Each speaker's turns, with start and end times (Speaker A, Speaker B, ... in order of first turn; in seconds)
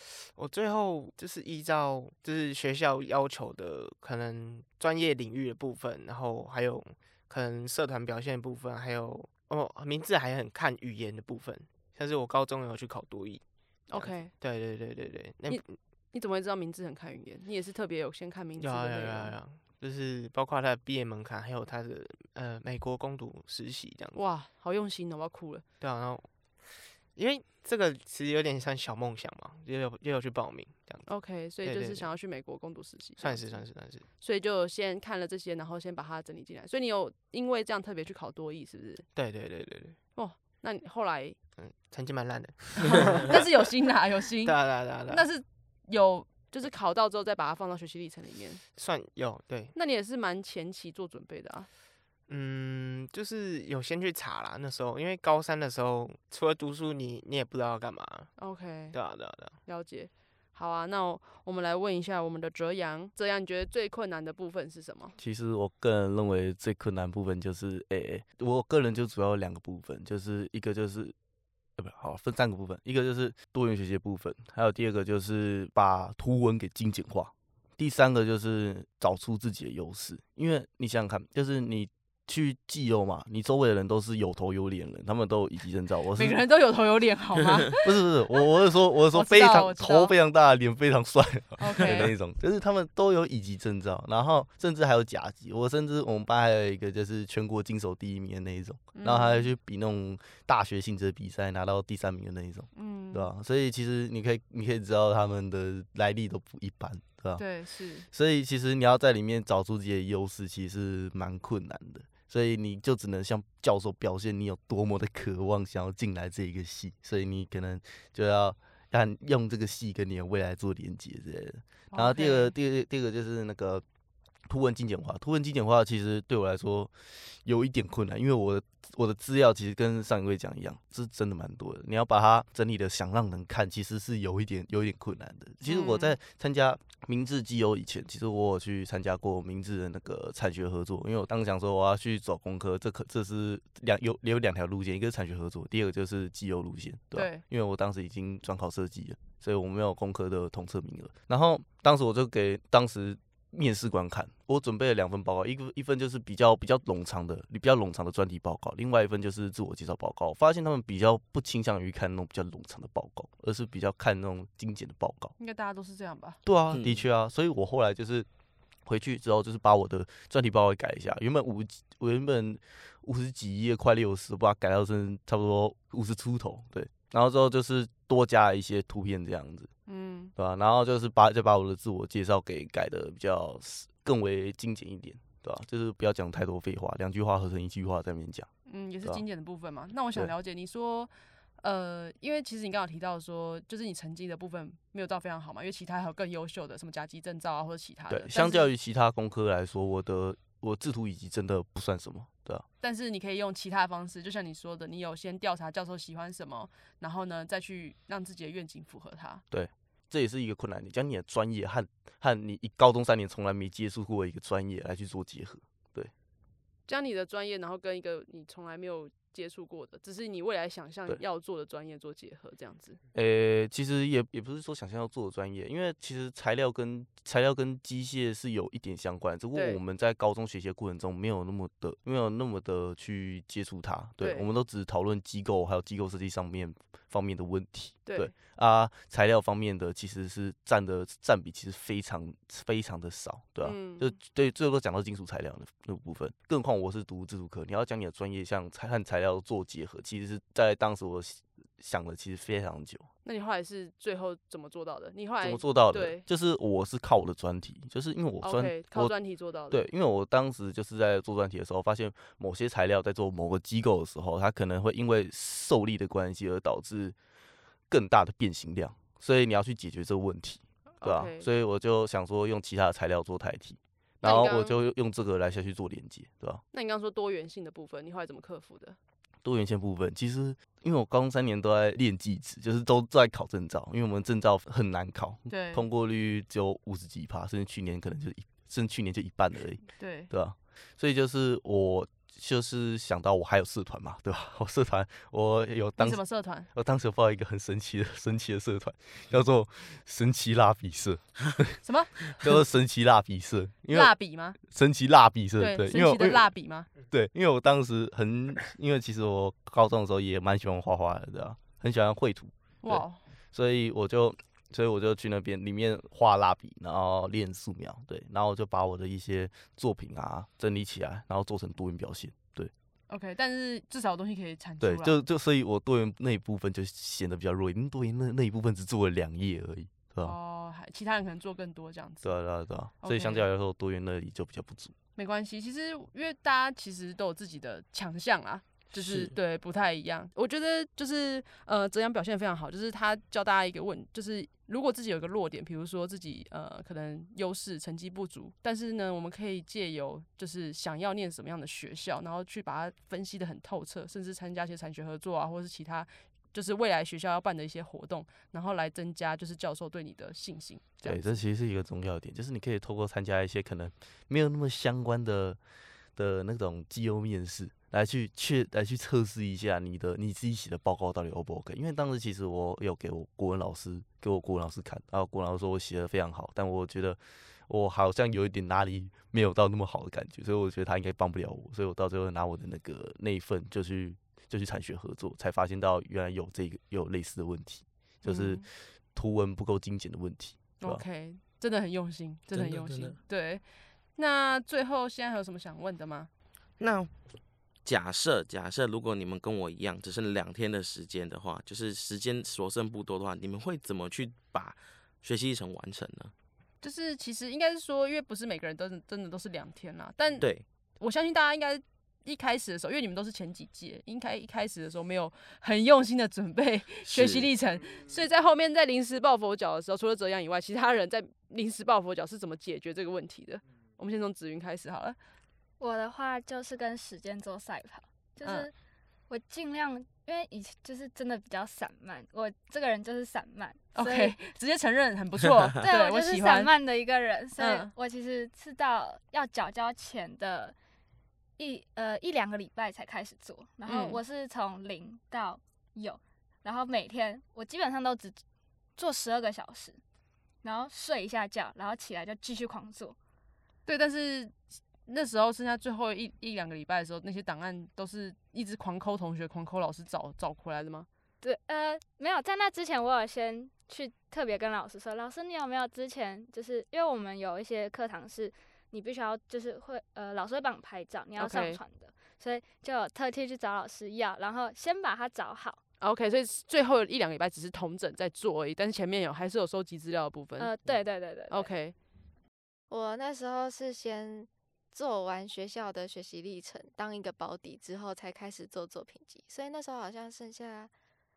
Speaker A: 0.3-15.8, 18.6-24.2, 25.8-31.1, 31.6-32.1, 33.2-34.0, 39.1-40.0, 41.6-43.5, 44.4-45.3, 48.8-49.7, 52.3-58.3, 58.9-59.6
Speaker B: 13.9-14.3, 15.5-19.4, 24.1-25.6, 31.1-33.6, 34.2-39.1, 40.1-41.4, 42.8-48.6, 49.7-51.7, 58.4-65.1, 86.2-88.0, 89.1-90.1, 91.6-92.1, 99.0-99.5, 102.8-103.3, 107.4-108.1, 121.9-122.5, 135.6-136.2, 147.1-147.4, 165.4-166.4, 179.9-180.3, 188.7-198.7, 202.8-209.4, 216.9-223.0, 229.5-229.8, 234.2-234.5, 238.1-238.3, 243.6-244.2, 253.2-256.2, 258.4-259.8, 271.0-271.5, 274.2-274.8, 276.7-279.0, 285.5-285.9, 290.0-290.3, 296.0-296.7, 301.8-302.5, 303.9-304.6, 305.6-306.9, 312.8-313.2, 323.1-325.2, 330.2-332.3, 333.0-333.4, 335.1-361.4, 388.2-388.6, 390.8-393.6, 394.1-396.3, 406.8-410.5, 411.0-425.2, 428.4-428.7, 433.9-436.7, 437.6-437.9, 443.9-444.2, 453.9-454.6, 455.1-461.1, 471.4-471.8, 476.0-480.7, 481.5-481.9
Speaker C: 65.2-71.1, 71.8-86.4, 87.8-107.4, 108.1-123.8, 124.5-165.3, 166.4-168.3, 168.9-179.7, 180.4-188.5, 198.1-202.6, 209.5-216.1, 223.1-253.1, 255.4-259.1, 259.7-267.1, 267.9-276.6, 279.4-322.7, 324.8-330.4, 332.2-334.9, 338.9-339.3, 361.0-365.6, 366.1-391.0
Speaker D: 166.7-167.1, 392.5-393.2, 396.8-397.1, 397.9-406.3, 410.4-410.6, 417.1-417.5
Speaker E: 425.8-428.7, 429.3-434.4, 435.8-440.8, 441.6-448.4, 449.0-450.0, 450.6-453.1, 461.4-475.8, 480.6-481.7
Speaker F: 482.9-490.9